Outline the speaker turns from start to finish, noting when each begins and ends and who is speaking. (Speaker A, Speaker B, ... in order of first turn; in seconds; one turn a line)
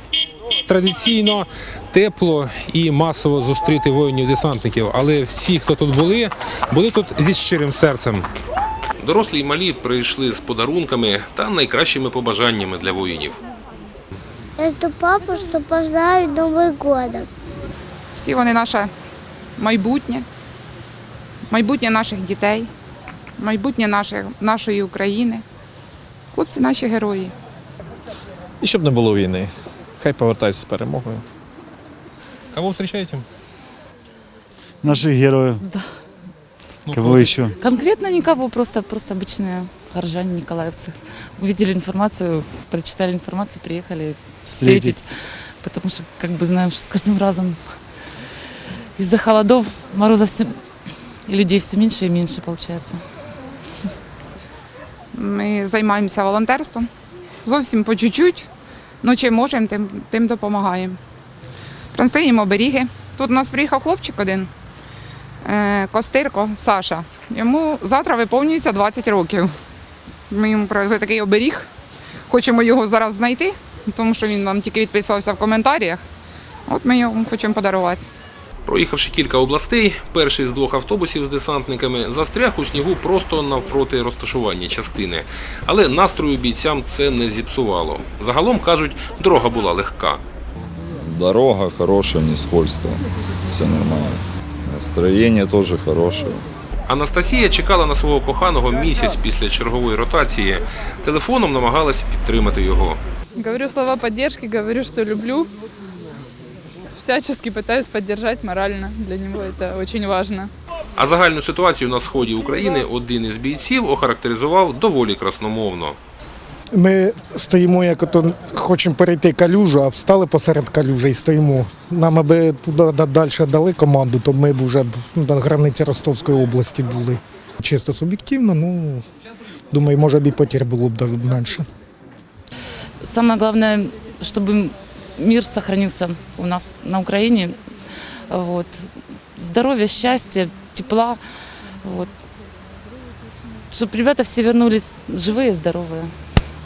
Speaker A: 0.7-8.3
Speaker A: 9.0-13.4
Speaker B: 14.6-17.3
Speaker C: 18.1-18.9
Speaker C: 19.6-20.3
Speaker C: 21.5-22.7
Speaker C: 23.4-25.4
Speaker C: 26.3-27.3
Speaker D: 28.6-31.2
Speaker A: 32.5-33.3
Speaker E: 34.8-35.6
Speaker A: 36.9-37.3
Speaker E: 36.9-37.5
Speaker F: 37.6-47.8
Speaker E: 44.5-45.0
Speaker F: 49.0-50.6
Speaker F: 51.2-53.0
Speaker C: 55.1-56.9
Speaker C: 57.4-58.5
Speaker C: 59.0-61.0
Speaker C: 61.9-64.5
Speaker C: 65.5-69.5
Speaker C: 70.3-71.7
Speaker C: 72.3-76.0
Speaker C: 76.7-78.0
Speaker A: 78.7-90.2
Speaker G: 91.0-96.5
Speaker A: 96.9-103.0
Speaker H: 103.4-105.5
Speaker H: 107.0-110.5
Speaker A: 111.0-116.0
Speaker I: 116.7-129.0
Speaker I: 129.7-131.7
Speaker F: 133.0-137.6
Speaker F: 138.3-141.2
Speaker F: 141.8-142.1
Speaker F: 143.7-146.1